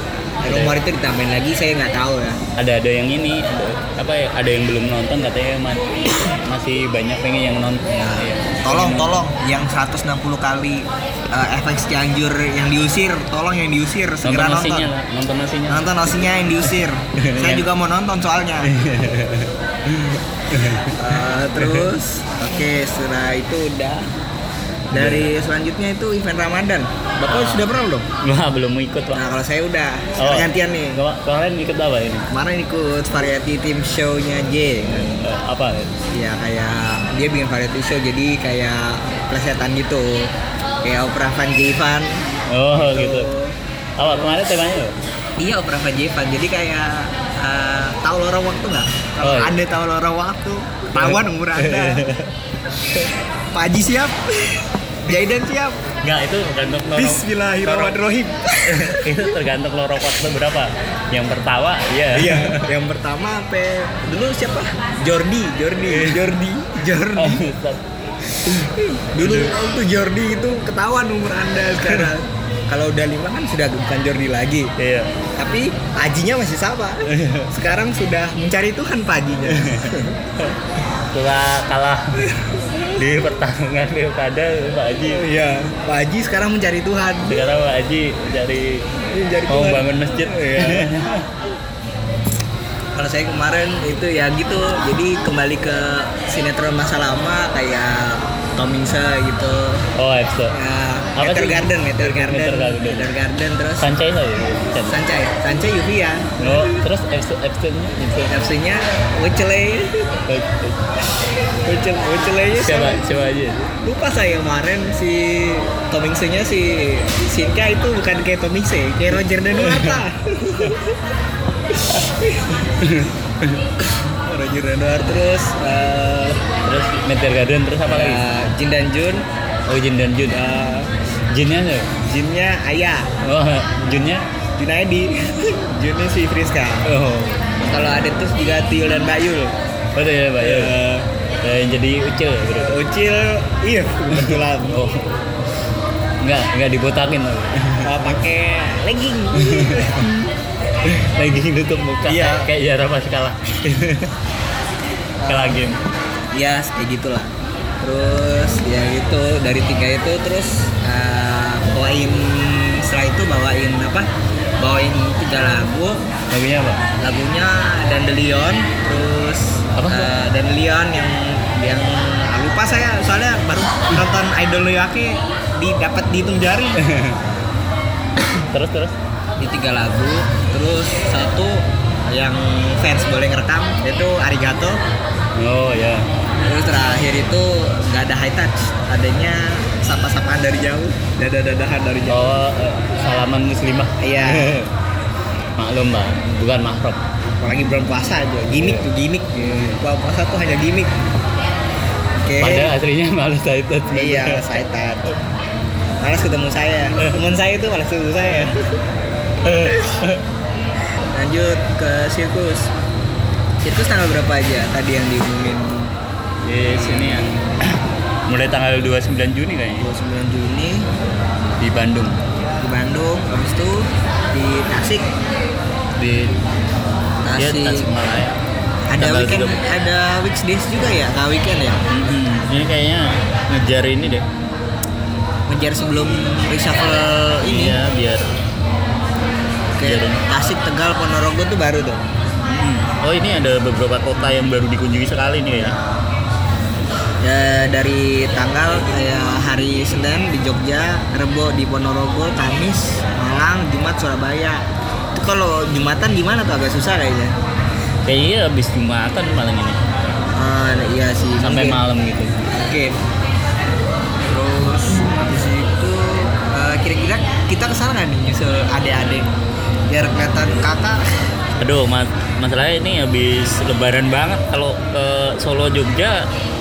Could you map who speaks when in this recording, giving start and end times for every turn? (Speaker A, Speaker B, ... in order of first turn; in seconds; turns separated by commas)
Speaker A: 0.4-2.4, Speaker B: 0.5-0.8, Speaker B: 2.5-9.2, Speaker A: 7.9-14.9, Speaker B: 14.2-15.8, Speaker A: 15.7-18.7, Speaker B: 17.1-17.7, Speaker B: 18.6-21.9, Speaker A: 20.9-24.1, Speaker A: 24.9-28.1, Speaker B: 24.9-25.3, Speaker B: 27.2-29.2, Speaker A: 29.1-31.0, Speaker B: 30.2-32.3, Speaker A: 32.3-35.2, Speaker B: 35.2-36.0, Speaker A: 36.1-44.3, Speaker B: 42.5-43.3, Speaker B: 44.0-44.9, Speaker A: 45.4-52.0, Speaker B: 49.2-49.5, Speaker B: 50.9-52.3, Speaker A: 53.5-55.8, Speaker B: 56.0-58.0, Speaker A: 56.9-59.3, Speaker B: 58.6-62.7, Speaker A: 62.1-67.5, Speaker B: 65.8-66.3, Speaker B: 67.2-67.8, Speaker A: 68.4-74.7, Speaker B: 69.2-69.5, Speaker B: 74.8-75.1, Speaker A: 75.4-80.2, Speaker B: 77.1-77.5, Speaker B: 79.5-85.2, Speaker A: 82.2-83.0, Speaker A: 85.0-87.4, Speaker B: 87.3-88.9, Speaker A: 89.0-90.9, Speaker B: 89.5-91.3, Speaker A: 92.9-99.9, Speaker B: 99.9-100.6, Speaker A: 100.5-103.9, Speaker B: 101.2-103.1, Speaker B: 103.8-105.0, Speaker A: 104.8-106.8, Speaker B: 106.4-108.3, Speaker A: 108.2-110.2, Speaker B: 110.3-110.8, Speaker A: 111.6-113.0, Speaker B: 112.6-113.7, Speaker A: 113.8-120.9, Speaker B: 119.6-120.0, Speaker A: 121.8-122.6, Speaker B: 122.7-123.6, Speaker A: 123.9-126.4, Speaker B: 126.6-128.2, Speaker A: 127.8-129.3, Speaker B: 129.7-130.4, Speaker A: 130.3-130.9, Speaker B: 131.3-131.9, Speaker A: 132.0-133.1, Speaker B: 133.2-134.3, Speaker A: 134.6-136.9, Speaker B: 136.8-137.6, Speaker A: 137.6-139.6, Speaker B: 139.9-140.8, Speaker A: 140.4-141.1, Speaker B: 141.4-142.8, Speaker A: 142.6-144.8, Speaker B: 144.1-145.1, Speaker B: 146.2-148.2, Speaker A: 147.8-150.1, Speaker B: 149.4-150.3, Speaker B: 150.8-154.1, Speaker A: 152.0-152.5, Speaker A: 155.2-155.6, Speaker B: 155.2-155.8, Speaker A: 156.3-166.0, Speaker B: 166.3-166.8, Speaker A: 167.0-176.8, Speaker B: 169.8-170.2, Speaker B: 176.8-177.2, Speaker B: 178.3-178.9, Speaker A: 179.4-184.8, Speaker B: 185.3-186.1, Speaker A: 186.4-192.3, Speaker B: 192.1-194.7, Speaker A: 194.0-194.6, Speaker B: 195.6-197.0, Speaker A: 197.4-201.0, Speaker B: 198.5-199.8, Speaker A: 202.2-202.7, Speaker B: 202.4-204.6, Speaker A: 203.9-205.2, Speaker A: 206.0-208.8, Speaker B: 209.4-210.2, Speaker A: 211.1-212.7, Speaker A: 213.6-216.0, Speaker B: 216.4-219.9, Speaker A: 216.7-217.4, Speaker A: 219.8-220.9, Speaker B: 221.6-222.2, Speaker A: 222.6-225.1, Speaker B: 226.0-226.4, Speaker A: 227.2-227.9, Speaker B: 227.3-228.4, Speaker A: 228.9-231.8, Speaker B: 228.9-229.6, Speaker B: 231.9-234.3, Speaker A: 235.5-237.8, Speaker B: 237.4-238.3, Speaker A: 239.8-242.1, Speaker B: 239.8-240.2, Speaker B: 242.4-245.8, Speaker A: 245.5-246.0, Speaker A: 247.2-257.4, Speaker B: 258.0-259.8, Speaker A: 260.3-261.8, Speaker B: 261.4-262.5, Speaker A: 262.5-263.0, Speaker A: 264.2-269.4, Speaker A: 269.9-271.0, Speaker B: 271.6-276.3